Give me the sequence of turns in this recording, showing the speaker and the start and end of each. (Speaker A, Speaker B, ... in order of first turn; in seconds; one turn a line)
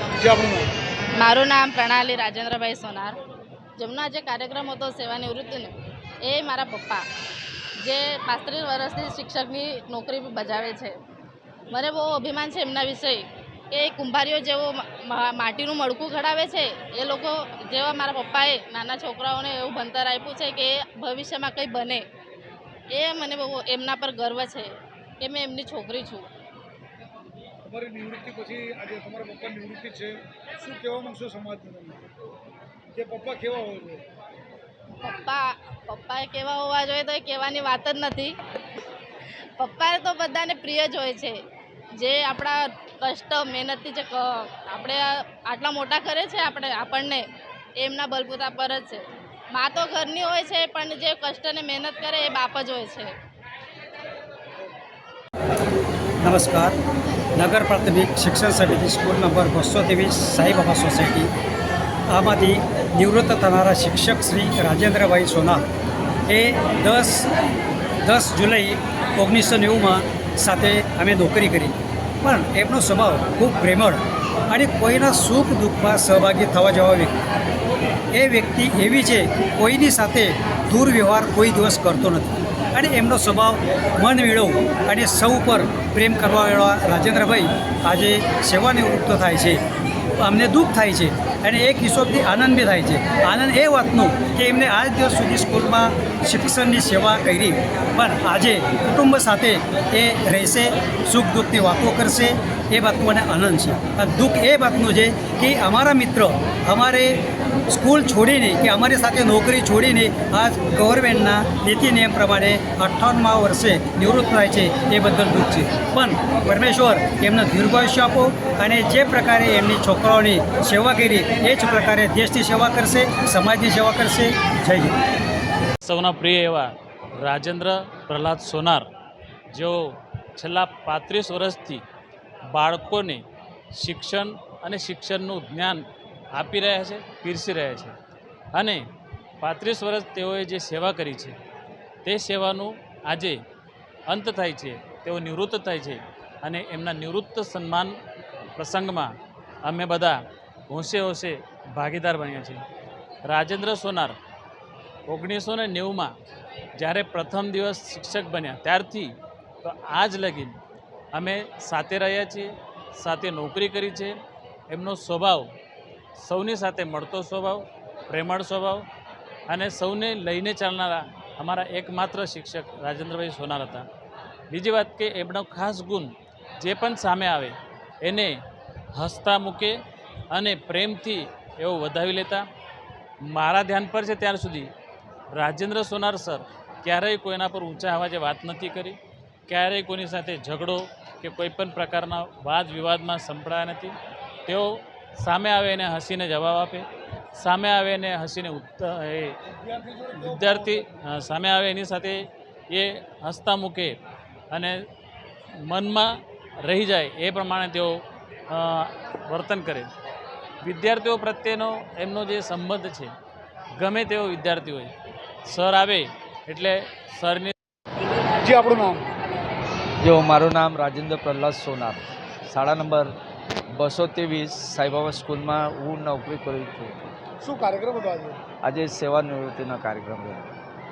Speaker A: 0.2-0.7
Speaker B: 1.2-3.1
Speaker B: 3.8-7.0
Speaker B: 7.8-11.0
Speaker B: 11.7-22.0
Speaker B: 22.9-26.3
Speaker A: 27.6-32.0
Speaker A: 32.9-34.0
Speaker B: 35.0-38.3
Speaker B: 39.6-41.4
Speaker B: 41.9-47.3
Speaker B: 47.8-53.1
Speaker C: 56.2-56.8
Speaker C: 57.3-61.3
Speaker C: 62.1-65.7
Speaker C: 66.3-67.3
Speaker C: 68.0-77.1
Speaker C: 78.1-89.6
Speaker C: 90.2-125.0
Speaker D: 125.8-128.8
Speaker D: 129.5-131.8
Speaker D: 132.5-133.2
Speaker D: 133.8-137.9
Speaker D: 138.5-138.8
Speaker D: 139.4-141.4
Speaker D: 142.0-143.4
Speaker D: 144.1-147.9
Speaker D: 148.6-149.1
Speaker D: 149.6-150.2
Speaker D: 150.7-152.6
Speaker D: 153.3-154.1
Speaker D: 155.1-156.1
Speaker D: 156.8-160.5
Speaker D: 161.1-164.1
Speaker D: 164.7-165.5
Speaker D: 166.2-168.8
Speaker D: 169.5-173.9
Speaker D: 174.5-178.3
Speaker D: 178.9-179.7
Speaker D: 180.3-182.4
Speaker D: 183.2-184.7
Speaker D: 185.3-193.9
Speaker D: 194.5-196.8
Speaker D: 197.4-199.3
Speaker A: 199.4-200.9
Speaker D: 200.2-204.0
Speaker D: 204.5-204.8
Speaker D: 205.7-206.1
Speaker D: 206.6-209.9
Speaker D: 210.6-213.1
Speaker D: 213.8-214.9
Speaker D: 215.5-217.5
Speaker A: 218.4-219.1
Speaker E: 220.0-223.1
Speaker E: 223.7-227.1
Speaker A: 227.4-228.4
Speaker E: 228.6-230.5